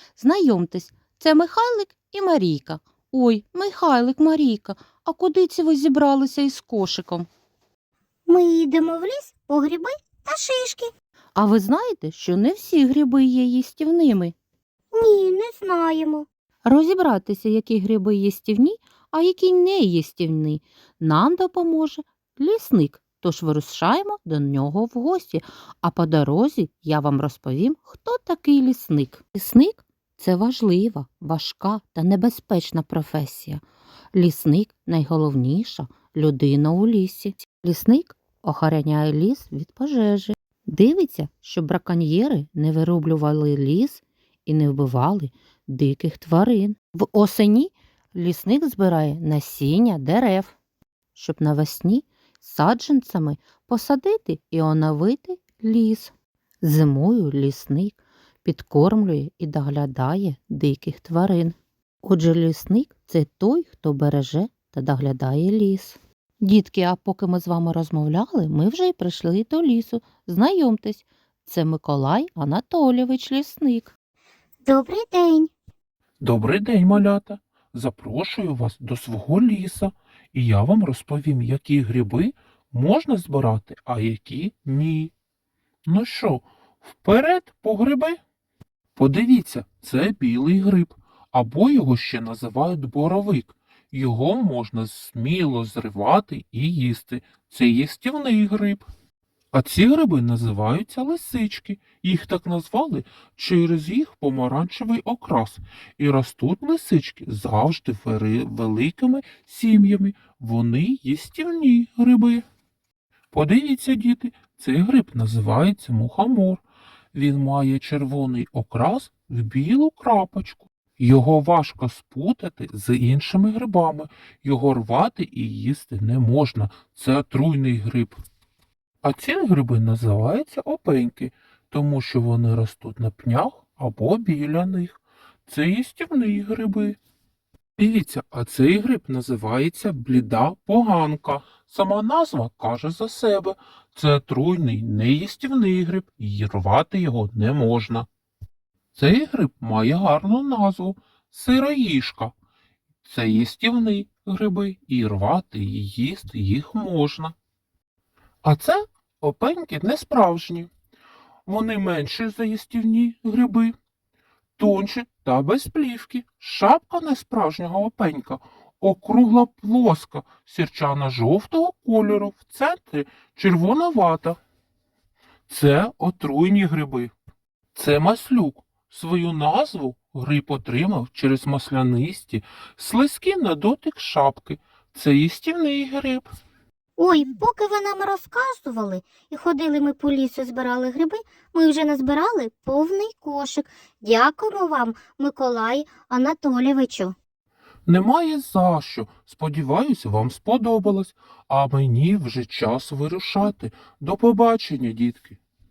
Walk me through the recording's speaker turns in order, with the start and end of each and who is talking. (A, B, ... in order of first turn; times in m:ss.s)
0:00.2-0:07.3 A
0:08.3-0:10.9 B
0:11.4-0:14.3 A
0:14.9-0:16.2 B
0:16.6-0:50.5 A
0:51.1-0:56.1 A
0:56.6-1:13.9 A
1:14.6-1:15.5 B
1:16.2-1:25.1 C
1:25.8-1:28.2 C
1:29.0-1:38.8 C
1:39.5-1:52.4 C
1:53.3-1:56.6 C
1:57.1-2:08.2 C
2:09.0-2:17.0 C
2:17.8-2:28.1 C
2:28.9-2:32.3 C
2:33.0-2:37.3 C
2:38.4-2:40.7 C
2:41.4-2:43.7 C
2:44.6-2:54.4 C
2:55.5-2:57.1 C
2:57.7-3:06.3 C
3:07.0-3:17.1 B
3:17.8-3:25.4 C